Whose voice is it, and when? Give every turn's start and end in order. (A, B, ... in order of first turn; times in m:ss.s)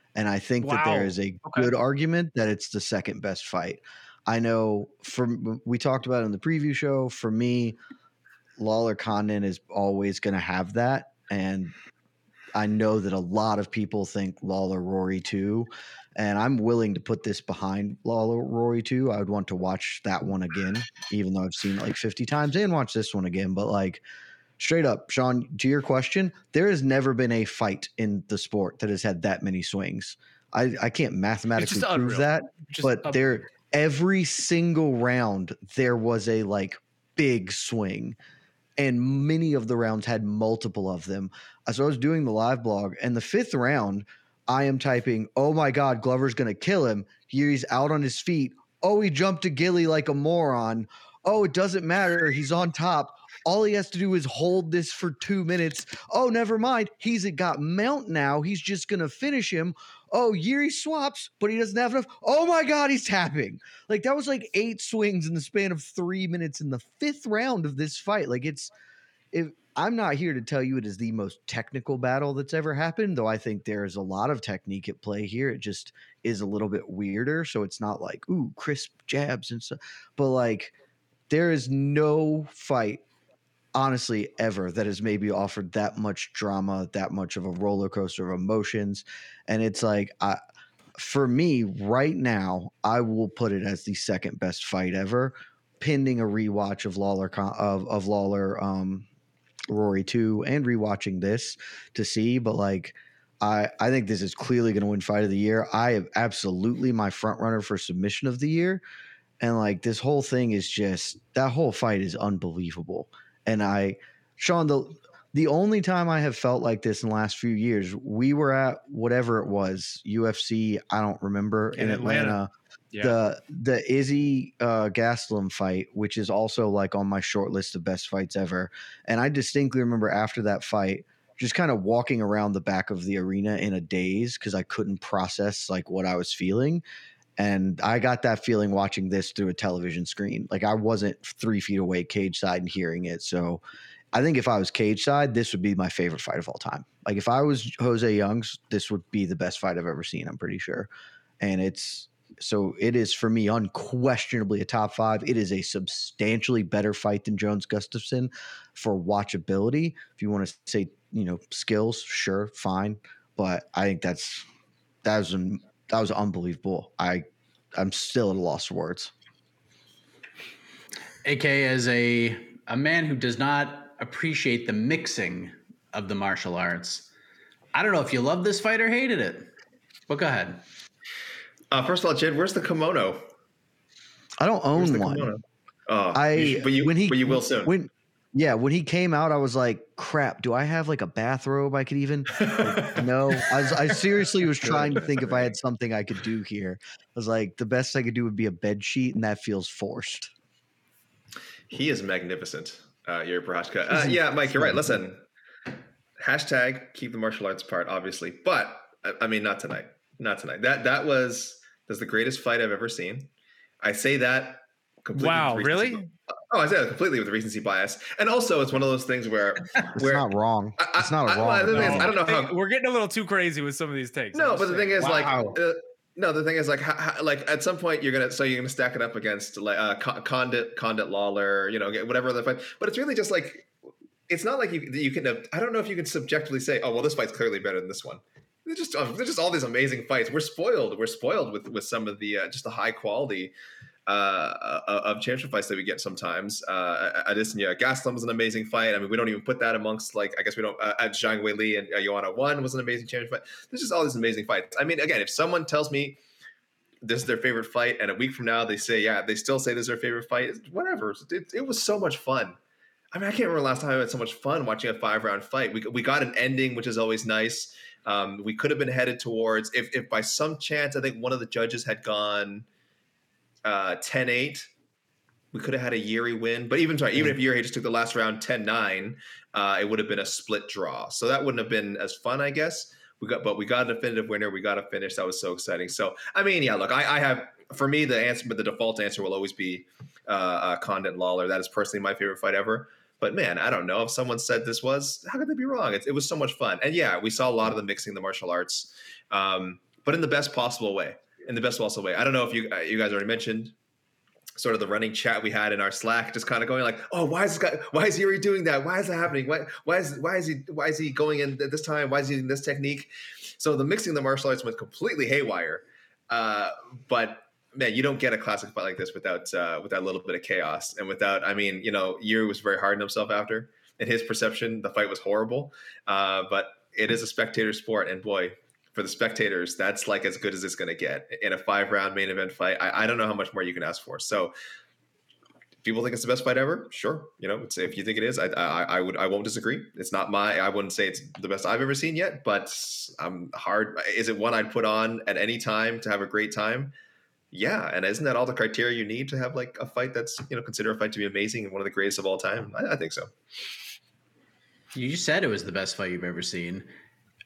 0:00.2-0:07.8 A
0:00.6-0:01.7 B
0:08.6-0:11.7 A
0:12.6-0:24.0 A
0:24.6-0:38.2 A
0:31.6-0:33.4 B
0:38.8-1:08.7 A
1:09.3-1:20.8 A
1:21.3-1:23.0 A
1:23.8-1:30.4 A
1:31.0-1:39.1 A
1:39.7-1:48.8 A
1:49.4-2:02.5 A
2:01.8-2:02.4 B
2:03.0-2:16.8 A
2:17.4-2:44.5 A
2:45.0-2:49.1 A
2:51.2-2:57.1 C
2:57.7-2:59.5 C
3:00.1-3:00.6 C
3:01.7-3:03.3 D
3:04.4-3:05.3 A
3:04.7-3:07.8 D
3:06.1-3:20.3 A
3:12.4-3:13.9 D
3:14.6-3:15.6 D
3:21.7-3:25.2 D
3:24.1-3:25.0 A
3:26.2-3:33.3 D
3:33.8-3:42.6 D
3:35.1-3:36.0 B
3:40.0-3:42.1 A
3:41.7-3:45.5 B
3:44.3-3:53.7 D
3:54.3-4:03.5 D
4:04.1-4:16.2 D
4:17.0-4:22.6 D
4:23.1-4:32.7 D
4:33.6-4:34.7 D
4:35.5-5:03.7 D
5:04.6-5:34.6 D
5:35.8-5:46.9 D
5:47.5-5:53.3 D
5:55.0-5:56.9 C